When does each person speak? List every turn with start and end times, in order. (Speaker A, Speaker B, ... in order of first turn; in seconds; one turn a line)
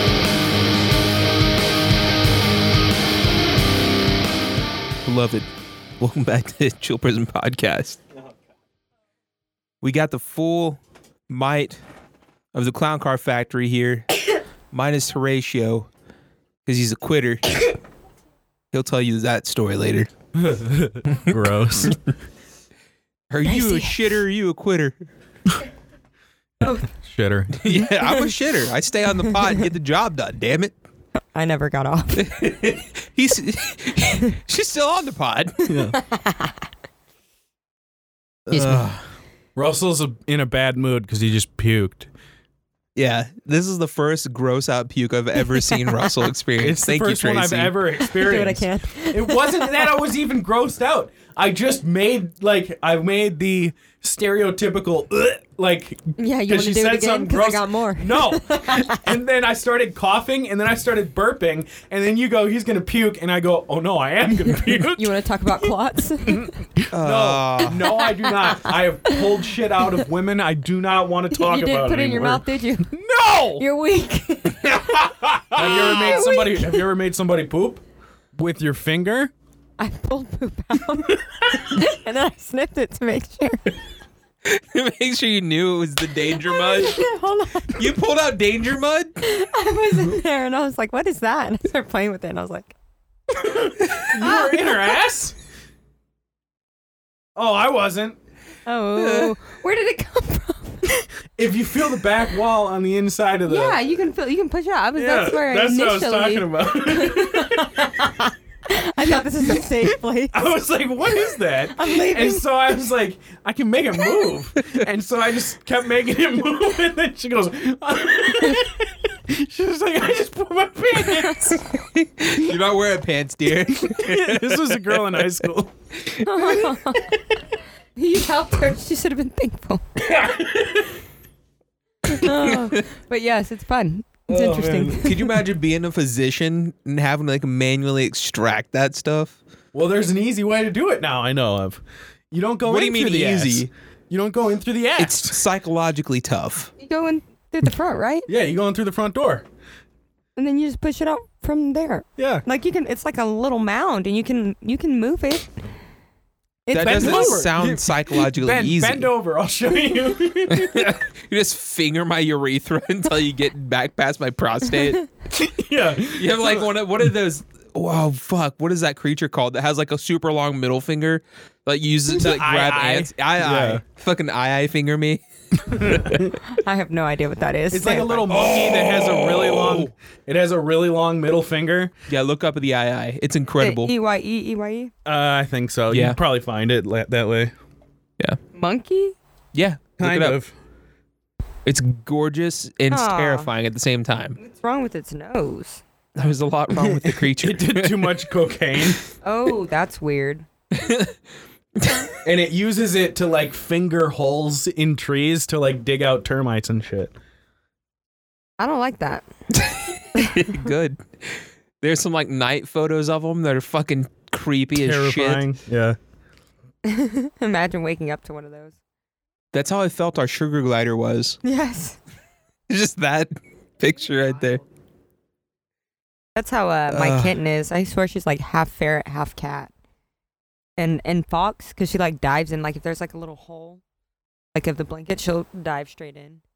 Speaker A: 5.0-5.5
Speaker A: 6.0-8.0
Speaker A: 9.8-11.8
Speaker A: 12.5-14.1
Speaker A: 14.7-15.9
Speaker A: 16.6-17.7
Speaker A: 18.7-20.1
Speaker B: 20.3-22.0
Speaker A: 21.3-21.9
Speaker A: 23.3-25.0
Speaker C: 23.4-24.1
Speaker B: 26.9-27.7
Speaker A: 27.6-30.7
Speaker C: 28.0-28.3
Speaker C: 31.3-32.3
Speaker A: 32.1-35.8
Speaker B: 35.7-36.0
Speaker C: 35.9-36.5
Speaker C: 38.5-38.9
Speaker A: 38.5-39.0
Speaker B: 39.5-42.1
Speaker A: 43.0-47.8
Speaker B: 46.6-65.7
Speaker C: 48.0-49.9
Speaker C: 56.2-59.0
Speaker C: 64.9-66.5
Speaker B: 66.2-73.6
Speaker A: 66.9-68.0
Speaker C: 67.8-69.2
Speaker C: 71.3-73.0
Speaker C: 73.5-76.8
Speaker A: 74.6-76.2
Speaker B: 75.5-77.8
Speaker B: 78.3-79.3
Speaker C: 79.8-83.7
Speaker A: 84.4-87.1
Speaker C: 86.4-87.8
Speaker A: 87.7-89.2
Speaker C: 89.2-92.7
Speaker B: 93.4-95.3
Speaker C: 94.1-94.8
Speaker B: 97.3-98.2
Speaker C: 98.7-101.0
Speaker A: 98.9-99.3
Speaker B: 101.4-103.8
Speaker C: 103.5-110.5
Speaker B: 105.0-107.9
Speaker B: 109.6-121.6
Speaker C: 111.7-112.5
Speaker A: 121.8-125.2
Speaker B: 123.8-125.7
Speaker C: 126.2-127.2
Speaker C: 128.0-129.8
Speaker B: 130.0-130.9
Speaker C: 132.1-135.2
Speaker B: 134.3-135.1
Speaker A: 135.0-139.4
Speaker B: 139.7-145.4
Speaker A: 142.6-143.7
Speaker A: 145.0-146.7
Speaker C: 146.8-148.3
Speaker B: 148.3-149.4
Speaker C: 150.3-155.5
Speaker B: 152.2-152.4
Speaker C: 156.7-157.4
Speaker A: 156.7-159.1
Speaker B: 156.7-161.0
Speaker A: 160.5-165.1
Speaker B: 165.3-166.7
Speaker A: 166.1-176.2
Speaker B: 172.1-173.8
Speaker B: 175.7-176.3
Speaker C: 176.5-178.2
Speaker B: 177.7-181.9
Speaker A: 178.3-179.9
Speaker A: 182.1-183.9
Speaker C: 183.6-184.9
Speaker B: 185.1-187.5
Speaker A: 185.9-186.2
Speaker C: 188.5-189.2
Speaker A: 189.5-190.4
Speaker B: 190.0-190.5
Speaker A: 191.6-194.4
Speaker C: 192.9-193.5
Speaker C: 194.4-195.8
Speaker A: 196.2-198.2
Speaker B: 196.8-199.0
Speaker C: 199.2-200.4
Speaker A: 200.7-201.1
Speaker A: 201.8-202.1
Speaker B: 202.2-207.1
Speaker C: 208.6-209.3
Speaker C: 210.1-210.6
Speaker A: 210.2-215.4
Speaker B: 214.7-216.0
Speaker C: 216.8-218.7
Speaker A: 219.5-221.4
Speaker C: 221.4-222.0
Speaker A: 222.7-224.6
Speaker C: 226.3-229.7
Speaker A: 226.9-227.3
Speaker C: 230.8-233.8
Speaker C: 234.5-236.4